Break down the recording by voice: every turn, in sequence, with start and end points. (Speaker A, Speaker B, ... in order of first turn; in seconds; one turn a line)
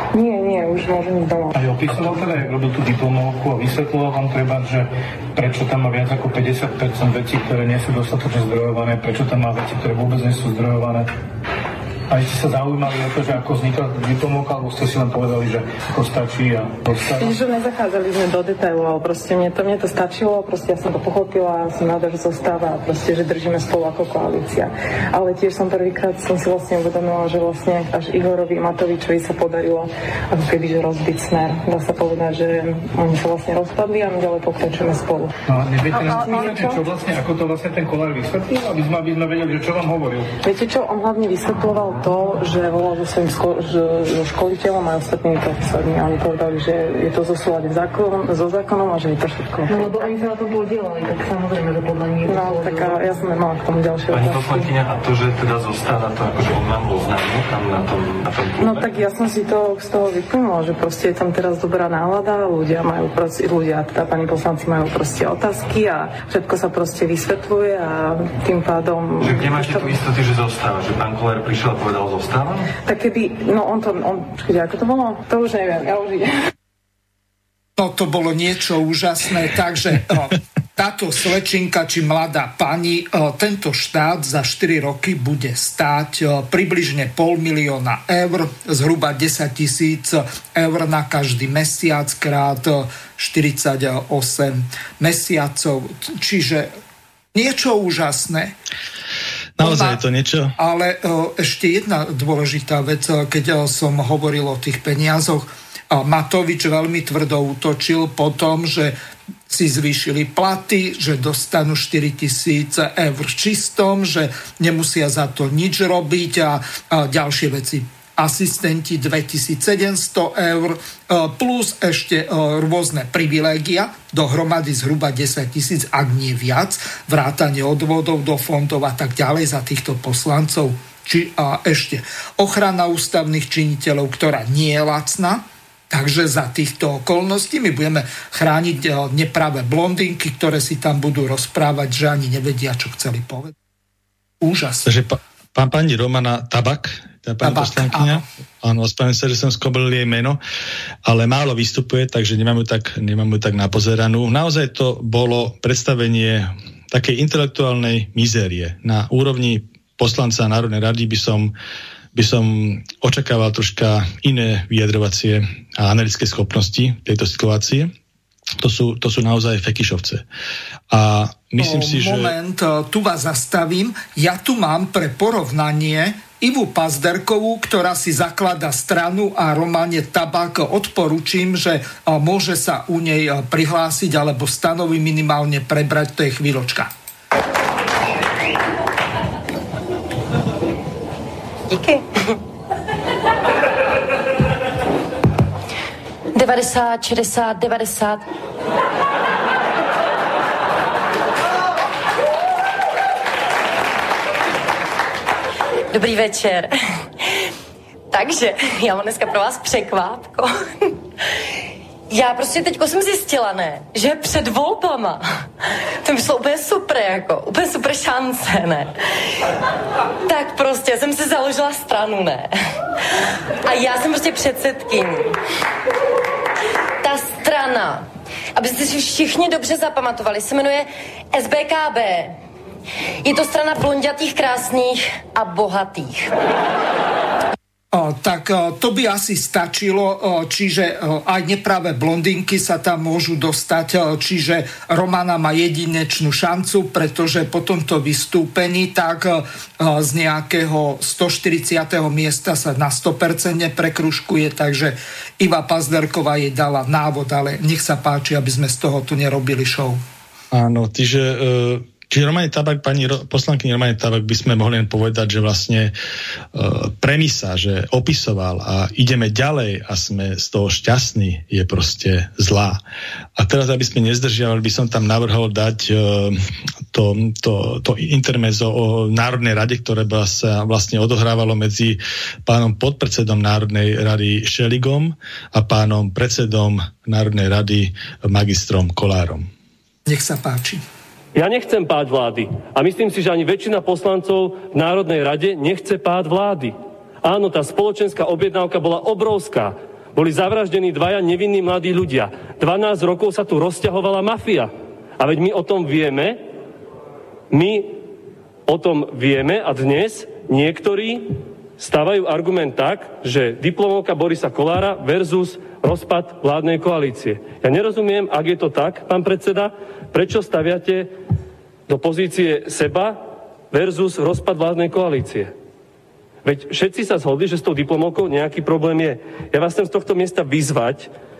Speaker A: 0.1-1.5
Speaker B: 1.5-11.1
Speaker B: 12.1-17.4
Speaker A: 17.0-35.3
Speaker B: 35.5-40.3
Speaker A: 35.9-36.9
Speaker A: 40.4-49.9
Speaker C: 49.7-53.0
Speaker A: 52.2-54.7
Speaker D: 54.1-58.9
Speaker A: 58.6-70.0
Speaker D: 69.2-72.7
Speaker A: 72.8-76.3
Speaker E: 77.8-96.7
Speaker E: 97.3-98.5
Speaker F: 99.6-100.5
Speaker E: 99.6-100.0
Speaker E: 100.6-109.0
Speaker E: 109.5-143.5
Speaker E: 144.4-144.9
Speaker F: 144.8-150.4
Speaker E: 147.4-148.2
Speaker F: 151.1-161.5
Speaker F: 162.1-167.9
Speaker F: 168.6-170.2
Speaker F: 170.9-172.3
Speaker E: 171.6-186.9
Speaker G: 191.7-192.3
Speaker G: 196.3-198.2
Speaker G: 205.9-206.7
Speaker G: 208.1-210.9
Speaker G: 212.1-215.4
Speaker G: 216.0-218.9
Speaker G: 220.2-222.5
Speaker G: 223.7-225.3
Speaker G: 227.0-232.3
Speaker G: 233.2-236.3
Speaker E: 237.9-260.0
Speaker F: 260.5-265.9
Speaker F: 266.5-272.8
Speaker F: 273.4-276.4
Speaker F: 276.9-289.5
Speaker E: 290.1-290.8
Speaker H: 291.3-306.4
Speaker H: 307.5-308.0
Speaker H: 308.7-321.1
Speaker H: 321.9-323.2
Speaker H: 323.7-325.5
Speaker H: 326.4-331.1